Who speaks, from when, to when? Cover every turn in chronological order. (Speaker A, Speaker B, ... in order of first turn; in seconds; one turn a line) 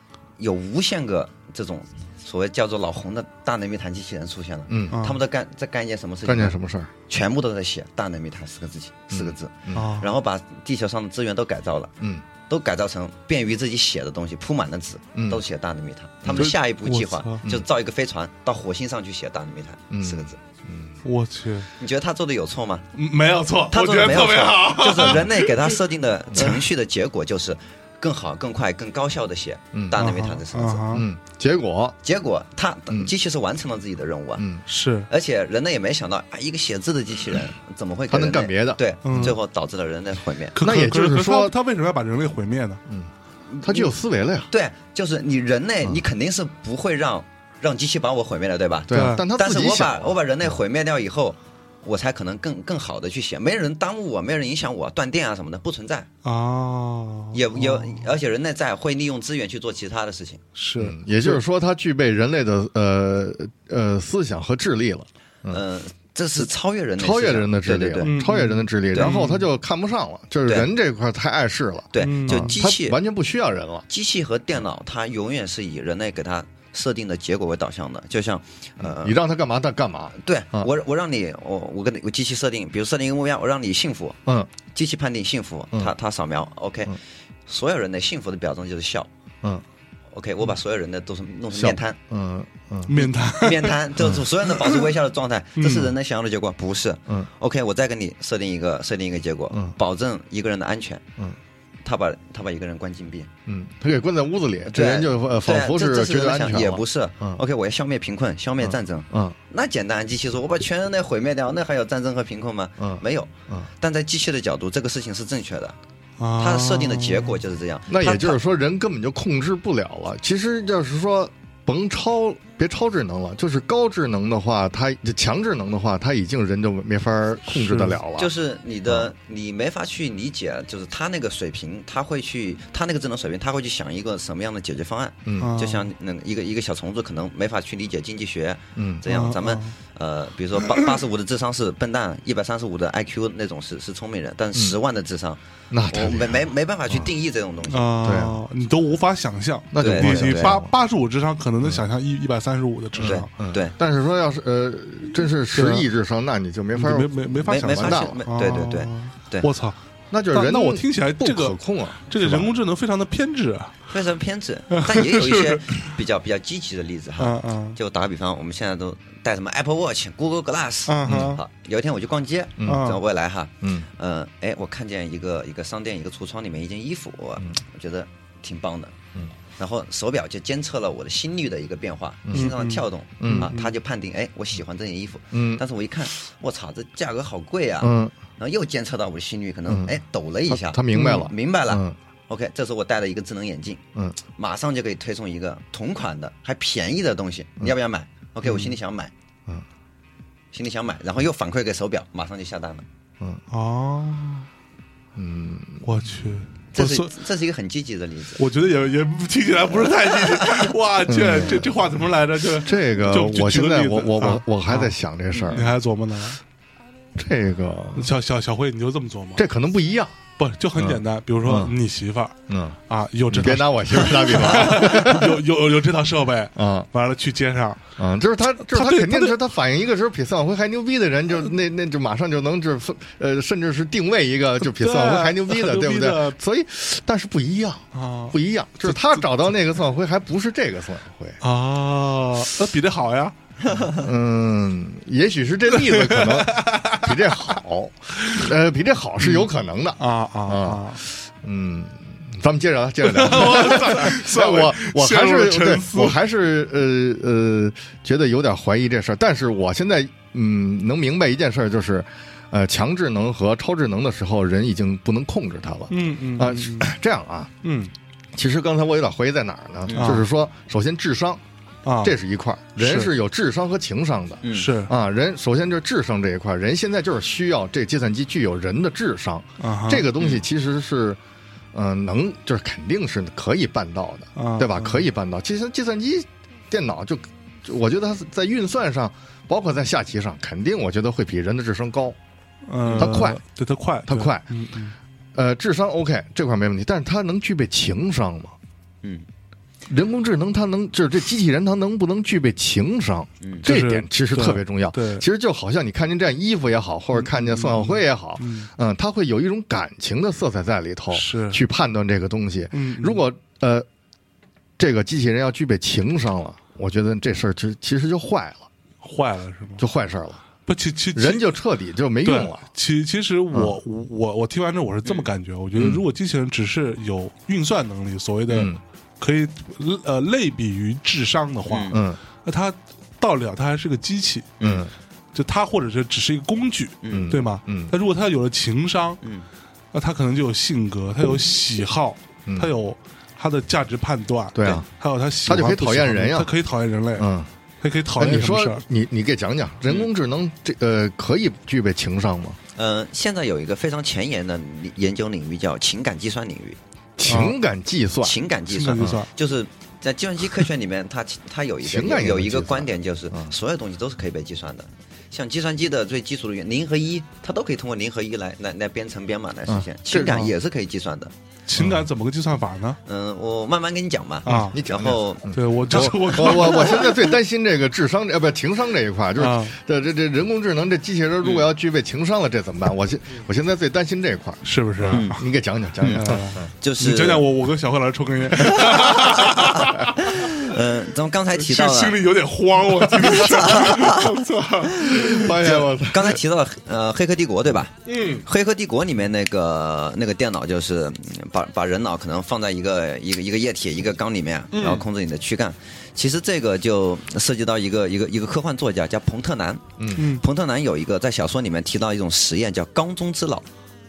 Speaker A: 0.4-6.5
Speaker B: 4.7-5.0
Speaker C: 4.9-5.2
Speaker B: 6.2-6.9
Speaker A: 7.1-11.9
Speaker B: 9.1-9.9
Speaker C: 9.7-10.1
Speaker A: 12.5-20.4
Speaker B: 15.2-15.4
Speaker C: 16.3-17.4
Speaker B: 19.9-20.9
Speaker C: 21.0-21.7
Speaker A: 21.8-22.9
Speaker C: 22.9-25.8
Speaker A: 23.7-30.9
Speaker C: 26.4-26.6
Speaker B: 29.7-30.0
Speaker C: 29.9-31.1
Speaker B: 30.9-32.0
Speaker A: 32.0-34.5
Speaker B: 34.4-34.6
Speaker C: 34.7-35.1
Speaker A: 35.1-40.6
Speaker B: 38.1-39.3
Speaker C: 39.0-39.4
Speaker C: 40.6-42.8
Speaker B: 40.6-41.5
Speaker A: 43.5-43.9
Speaker B: 43.6-44.5
Speaker A: 44.5-56.1
Speaker B: 48.9-50.1
Speaker C: 48.9-49.3
Speaker C: 56.2-58.0
Speaker A: 57.3-60.4
Speaker C: 60.5-61.4
Speaker B: 60.8-65.6
Speaker A: 65.5-68.1
Speaker B: 67.0-73.9
Speaker C: 68.0-69.5
Speaker A: 71.9-73.0
Speaker C: 72.0-72.6
Speaker A: 73.9-79.2
Speaker B: 78.8-80.7
Speaker A: 80.2-84.2
Speaker A: 84.7-89.1
Speaker A: 90.1-92.0
Speaker B: 91.5-93.0
Speaker C: 92.9-93.8
Speaker A: 93.0-101.1
Speaker C: 94.5-94.8
Speaker C: 95.6-95.9
Speaker A: 101.8-103.3
Speaker B: 103.5-107.4
Speaker A: 104.7-115.8
Speaker B: 108.6-109.4
Speaker B: 112.8-113.7
Speaker C: 116.2-117.4
Speaker A: 116.4-118.4
Speaker B: 117.9-128.3
Speaker C: 127.5-128.0
Speaker A: 128.2-147.9
Speaker B: 135.2-135.5
Speaker C: 135.4-135.9
Speaker B: 138.8-139.1
Speaker C: 139.1-139.7
Speaker B: 145.7-147.1
Speaker C: 147.7-153.3
Speaker B: 148.0-148.4
Speaker B: 149.7-150.7
Speaker A: 149.8-150.6
Speaker B: 153.0-158.2
Speaker A: 153.0-153.7
Speaker C: 155.5-155.9
Speaker C: 156.8-159.8
Speaker A: 157.4-159.5
Speaker B: 160.1-162.5
Speaker C: 160.3-163.8
Speaker A: 163.9-178.9
Speaker C: 164.7-165.9
Speaker C: 167.2-167.8
Speaker C: 170.9-171.4
Speaker B: 171.1-171.4
Speaker B: 172.6-172.9
Speaker C: 172.7-173.0
Speaker B: 173.6-173.9
Speaker A: 179.6-199.1
Speaker B: 182.3-182.5
Speaker C: 182.3-183.8
Speaker B: 183.2-183.5
Speaker B: 185.3-185.6
Speaker B: 187.8-188.1
Speaker B: 189.7-189.9
Speaker B: 190.5-192.0
Speaker C: 190.9-191.3
Speaker A: 200.5-202.8
Speaker C: 203.5-204.5
Speaker B: 205.2-205.9
Speaker C: 205.8-207.2
Speaker A: 206.7-208.4
Speaker C: 208.4-214.9
Speaker B: 211.1-211.7
Speaker B: 212.6-215.7
Speaker A: 215.3-215.6
Speaker C: 215.5-216.4
Speaker B: 217.2-218.1
Speaker C: 218.0-219.4
Speaker B: 219.4-220.2
Speaker C: 220.4-222.4
Speaker B: 220.8-221.8
Speaker B: 222.5-222.8
Speaker C: 222.9-227.8
Speaker B: 223.3-225.4
Speaker B: 226.6-226.9
Speaker B: 228.0-241.4
Speaker C: 228.6-229.4
Speaker C: 234.7-236.4
Speaker C: 237.9-239.4
Speaker C: 241.4-243.3
Speaker B: 243.9-267.5
Speaker C: 245.8-247.4
Speaker C: 248.2-248.5
Speaker C: 249.2-249.5
Speaker C: 250.0-251.0
Speaker C: 253.0-256.2
Speaker C: 265.9-266.9
Speaker C: 267.6-267.9
Speaker B: 268.4-271.4
Speaker C: 269.9-270.3
Speaker C: 271.9-272.1
Speaker B: 272.0-281.2
Speaker C: 272.8-273.1
Speaker A: 274.4-274.7
Speaker C: 274.5-274.9
Speaker C: 279.6-280.1
Speaker B: 281.7-292.2
Speaker C: 284.4-285.0
Speaker C: 292.7-294.9
Speaker B: 292.9-293.4
Speaker B: 294.1-294.4
Speaker B: 295.4-298.6
Speaker B: 299.9-313.9
Speaker A: 303.4-303.7
Speaker C: 303.6-305.2
Speaker C: 307.1-308.7
Speaker C: 311.1-311.6
Speaker C: 312.7-313.2
Speaker B: 314.8-318.7
Speaker C: 319.0-319.8
Speaker B: 319.8-320.4
Speaker C: 320.7-321.4
Speaker B: 321.1-322.6
Speaker C: 322.2-334.8
Speaker B: 325.8-326.0
Speaker B: 328.5-328.8
Speaker A: 331.7-332.0
Speaker B: 331.9-332.2
Speaker B: 334.6-334.9
Speaker C: 335.3-339.2
Speaker A: 337.0-337.3
Speaker B: 337.1-337.9
Speaker C: 339.9-347.3
Speaker B: 344.6-344.9
Speaker B: 345.4-346.5
Speaker B: 347.2-347.5
Speaker C: 347.8-348.8
Speaker B: 348.2-352.6
Speaker A: 352.8-356.8
Speaker B: 357.2-358.4
Speaker C: 357.2-357.6
Speaker A: 358.2-371.3
Speaker C: 358.7-359.3
Speaker B: 361.8-363.5
Speaker B: 369.7-370.5
Speaker C: 371.7-373.0
Speaker B: 371.8-372.1
Speaker A: 373.1-376.1
Speaker C: 374.5-374.8
Speaker B: 374.5-386.7
Speaker C: 375.5-377.3
Speaker C: 379.4-379.8
Speaker C: 384.6-385.4
Speaker A: 385.1-385.4
Speaker C: 386.1-390.8
Speaker A: 386.8-387.4
Speaker A: 388.6-392.2
Speaker C: 391.5-395.7
Speaker A: 393.2-394.4
Speaker B: 395.0-396.4
Speaker A: 395.1-413.6
Speaker C: 398.1-398.4
Speaker C: 404.7-405.0
Speaker C: 410.2-410.4